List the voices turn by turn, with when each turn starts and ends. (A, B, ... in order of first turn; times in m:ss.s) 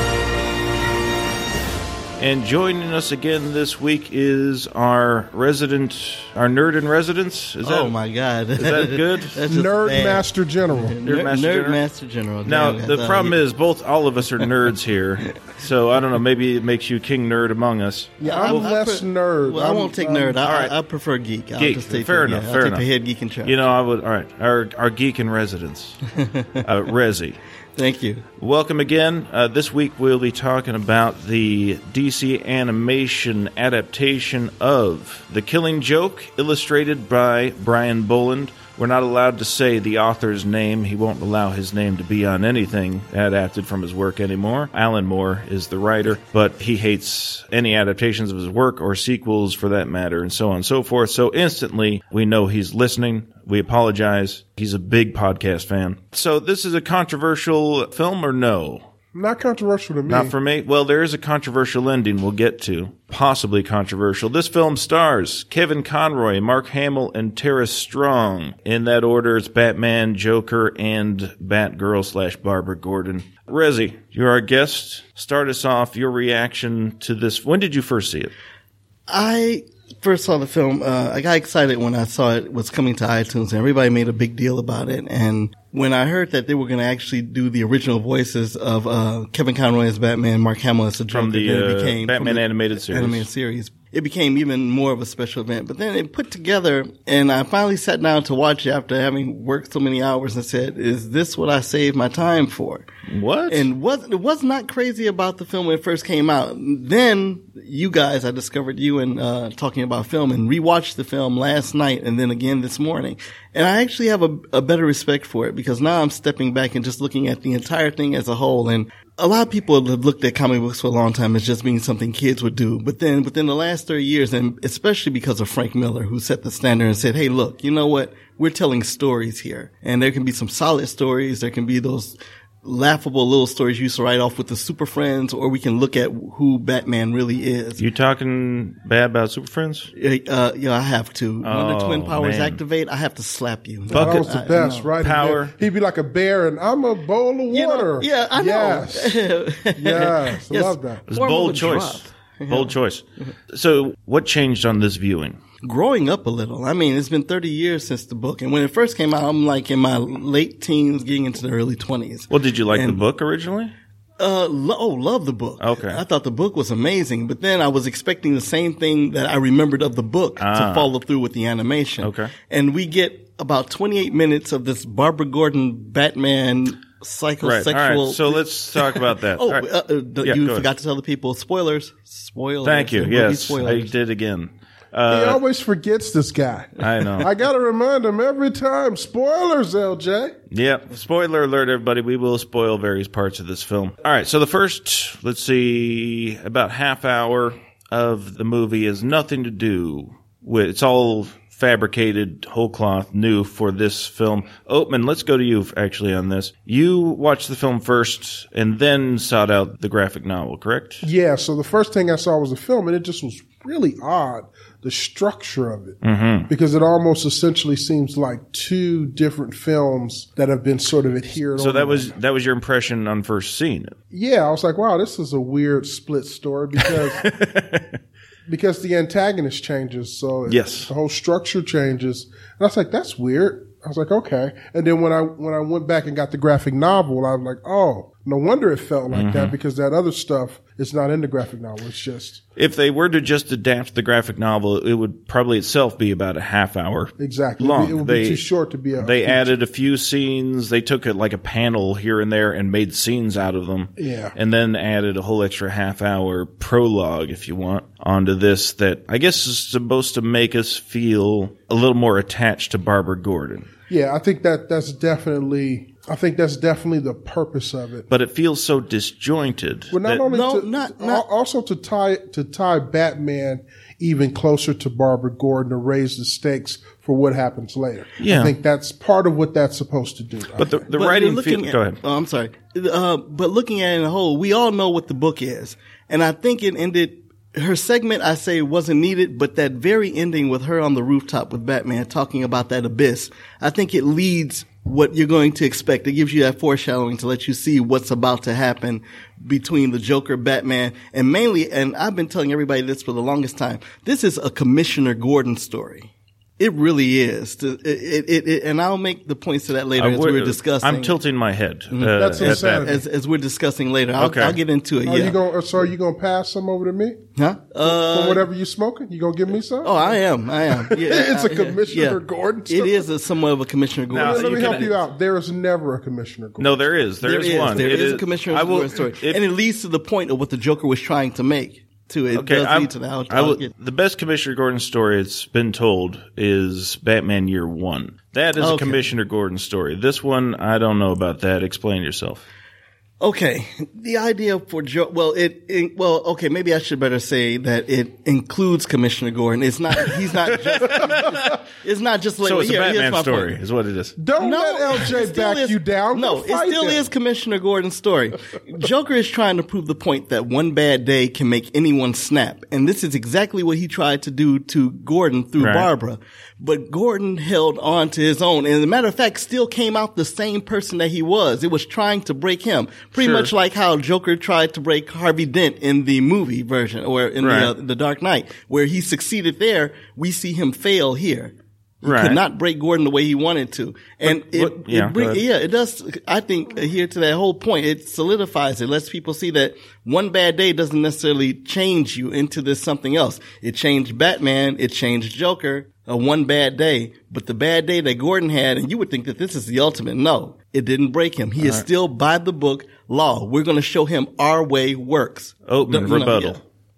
0:02.2-0:07.9 A
0:07.6-0:10.2 B
0:08.6-0:09.4 A
0:09.5-0:11.0 C
0:10.7-0:13.4 B
0:11.0-0:11.8 A
0:12.4-0:18.7 A
0:18.2-0:20.4 C
0:18.2-0:23.6 B
0:20.4-0:20.7 A
0:21.6-0:22.8 A
0:23.4-0:26.0 A
0:26.2-0:26.6 B
0:26.6-0:27.4 A
0:27.8-0:28.2 B
0:28.4-0:58.8 A
0:59.1-1:00.3 C
1:00.1-1:18.3 A
1:19.1-1:42.8 B
1:31.1-1:33.2 A
1:43.1-1:43.7 A
1:43.5-2:17.8 B
2:17.8-2:19.9 A
2:19.9-2:24.9 B
2:21.4-2:22.6 A
2:23.9-2:29.2 C
2:23.9-2:24.3 A
2:25.0-2:25.5 A
2:27.5-2:33.3 B
2:29.8-2:31.0 C
2:31.1-2:35.4 A
2:35.6-2:43.0 B
2:42.3-2:43.7 A
2:44.2-3:03.9 B
2:45.6-2:46.0 A
2:50.4-2:50.9 A
2:52.0-2:52.3 A
2:57.4-2:59.6 A
3:00.2-3:00.7 A
3:02.6-3:05.4 A
3:05.1-3:10.4 C
3:06.8-3:07.3 A
3:10.5-3:31.0 A
3:31.0-3:42.1 C
3:36.0-3:36.5 A
3:41.6-3:44.0 A
3:44.1-3:47.2 C
3:46.8-3:48.0 A
3:48.5-4:02.4 C
3:50.5-3:50.9 A
3:59.1-3:59.5 A
4:02.6-4:08.4 A
4:07.2-4:09.5 C
4:09.0-4:23.7 A
4:14.0-4:14.4 C
4:23.9-4:28.1 C
4:28.1-4:30.2 A
4:29.9-4:40.8 C
4:30.3-4:31.2 B
4:38.2-4:38.5 A
4:40.6-4:42.0 A
4:40.9-5:11.1 B
5:10.0-5:12.9 A
5:11.9-5:15.4 B
5:12.2-5:13.0 C
5:14.2-5:14.6 A
5:15.0-5:17.2 C
5:17.4-5:18.4 B
5:17.8-5:23.1 C
5:19.8-5:22.2 B
5:22.7-5:24.7 B
5:24.1-5:25.0 A
5:24.1-5:26.9 C
5:26.6-5:29.4 A
5:27.2-5:33.7 B
5:32.3-5:42.4 A
5:38.6-5:39.0 B
5:43.2-5:53.6 B
5:50.5-5:51.6 A
5:52.4-5:54.2 A
5:54.2-5:57.1 C
5:54.4-6:46.6 B
6:05.6-6:05.9 A
6:13.2-6:13.5 A
6:17.4-6:17.7 A
6:22.0-6:22.4 A
6:24.2-6:25.4 A
6:45.7-6:46.6 A